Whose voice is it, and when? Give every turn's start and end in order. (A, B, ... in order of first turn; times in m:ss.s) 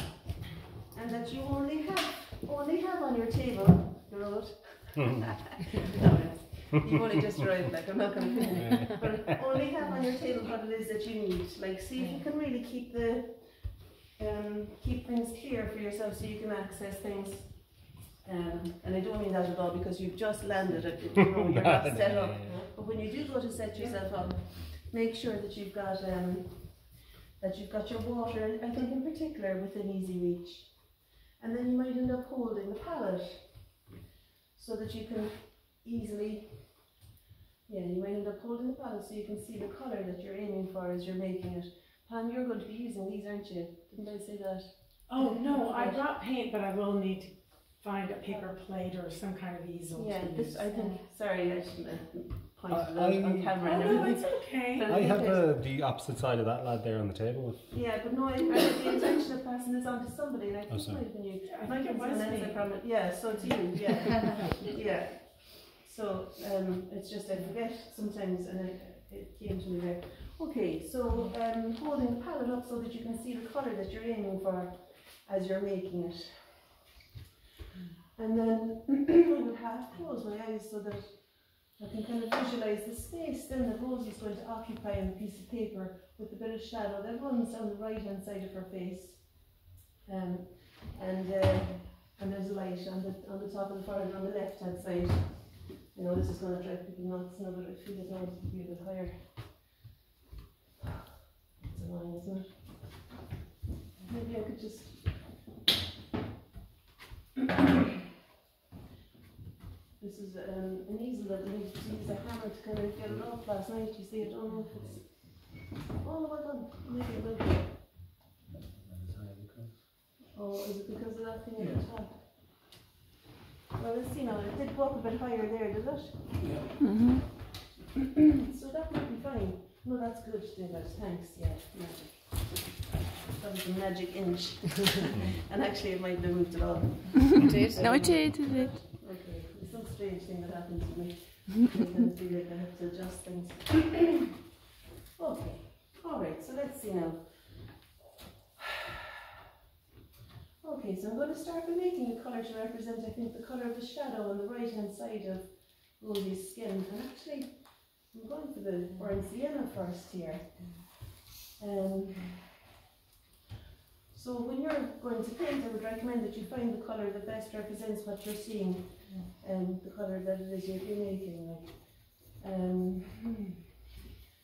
0:00.9-0:33.9 A
0:08.6-0:09.2 B
0:21.1-0:22.7 B
0:23.8-0:24.0 C
0:34.5-0:37.0 A
0:37.7-0:46.0 A
0:45.1-0:50.7 C
0:48.2-0:48.5 A
0:49.9-0:55.5 A
0:50.7-0:51.1 D
0:52.7-0:58.1 B
0:53.6-0:54.9 C
0:57.7-1:16.9 A
1:00.7-1:01.1 B
1:01.4-1:03.5 C
1:18.1-1:39.7 A
1:41.6-1:43.1 A
1:44.0-1:45.4 A
1:50.0-1:57.8 A
1:54.7-1:55.1 B
1:58.7-1:59.8 B
2:00.3-2:02.6 A
2:03.7-2:06.6 A
2:06.8-2:07.2 D
2:08.4-2:24.3 A
2:17.4-2:18.7 D
2:25.2-2:28.0 A
2:30.6-2:42.5 A
2:44.1-2:53.4 A